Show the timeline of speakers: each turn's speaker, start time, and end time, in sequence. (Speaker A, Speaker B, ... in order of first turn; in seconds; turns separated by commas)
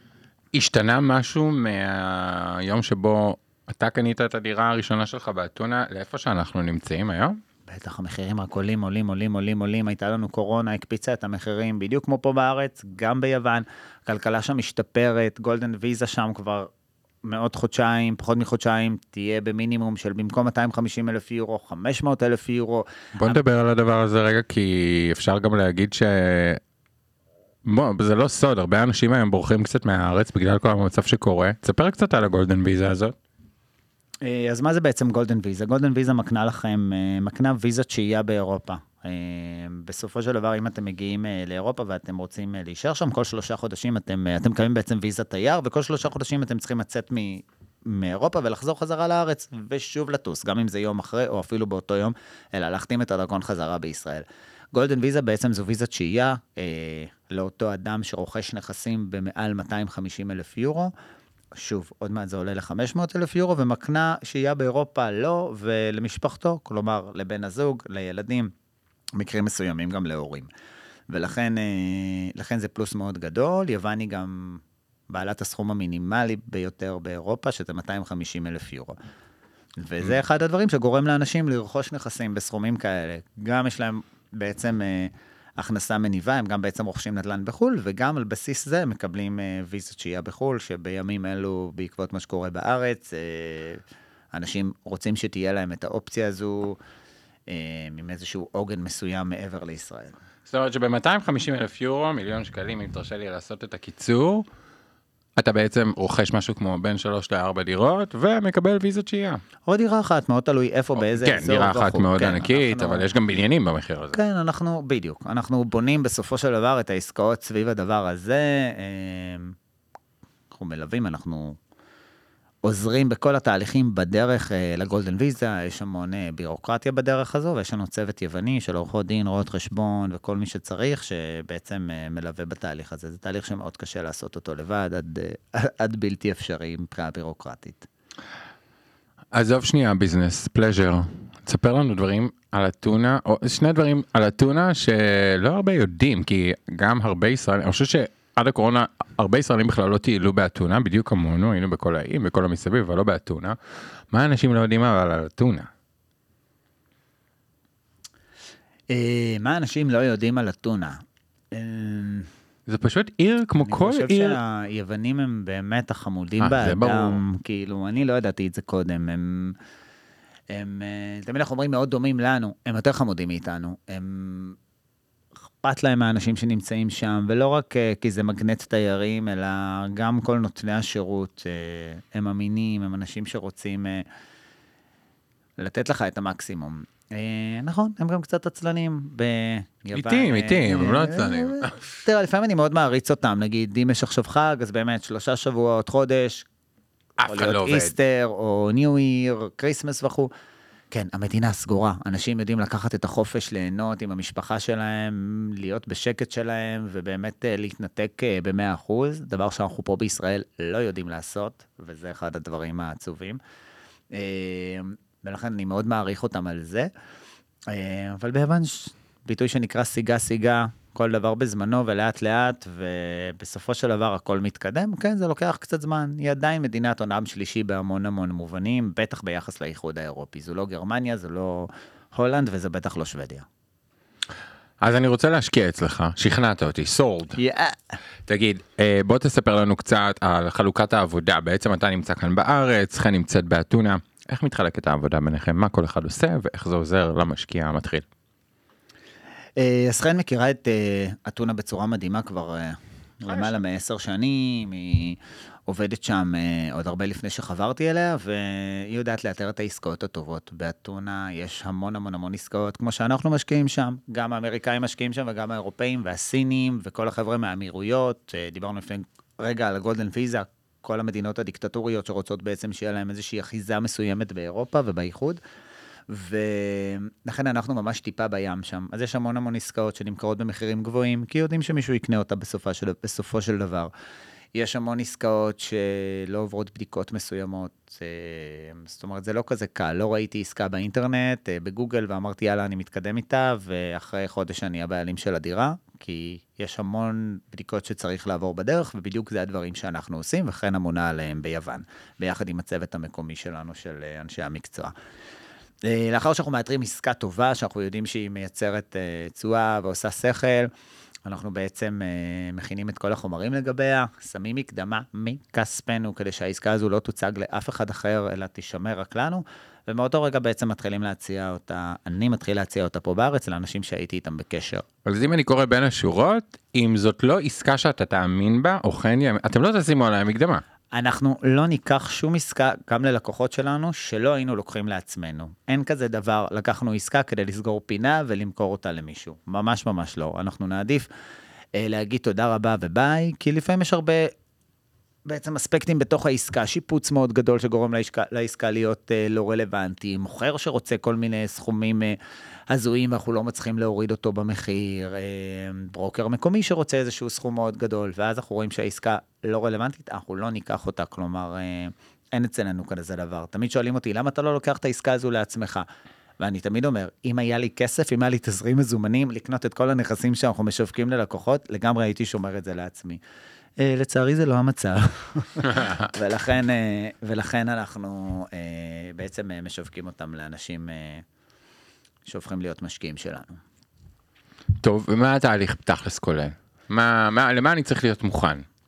Speaker A: 0.5-7.4, Speaker B: 7.7-16.7, Speaker B: 17.2-23.4, Speaker A: 23.2-26.6, Speaker A: 27.6-33.2, Speaker B: 34.2-60.9, Speaker B: 61.5-68.5, Speaker B: 69.2-70.5, Speaker B: 71.1-79.0, Speaker B: 79.8-96.8, Speaker B: 97.5-100.2, Speaker A: 100.5-104.5, Speaker A: 105.4-109.4, Speaker B: 109.7-113.1, Speaker A: 111.0-114.2, Speaker B: 114.1-119.6, Speaker B: 120.5-121.6, Speaker B: 122.6-137.9, Speaker A: 139.3-153.6, Speaker A: 154.1-155.7, Speaker B: 158.9-161.0, Speaker B: 161.5-162.3, Speaker A: 162.7-164.4, Speaker B: 163.6-169.6, Speaker A: 166.4-167.2, Speaker B: 170.5-174.6, Speaker B: 175.6-184.1, Speaker B: 185.6-196.5, Speaker A: 189.9-191.7, Speaker A: 197.2-197.9, Speaker B: 197.2-200.3, Speaker B: 200.9-213.4, Speaker B: 214.1-216.9, Speaker B: 217.7-233.4, Speaker A: 234.8-237.4, Speaker B: 237.4-238.0, Speaker A: 238.3-248.1, Speaker B: 249.6-275.4, Speaker B: 276.1-283.9, Speaker B: 284.6-304.9, Speaker B: 305.9-310.7, Speaker B: 311.2-324.8, Speaker A: 325.1-330.6, Speaker B: 330.9-341.1, Speaker B: 341.8-344.3, Speaker B: 345.3-352.2, Speaker B: 352.7-365.9, Speaker B: 366.4-373.2, Speaker B: 373.8-381.2, Speaker B: 382.3-383.6, Speaker A: 384.8-388.6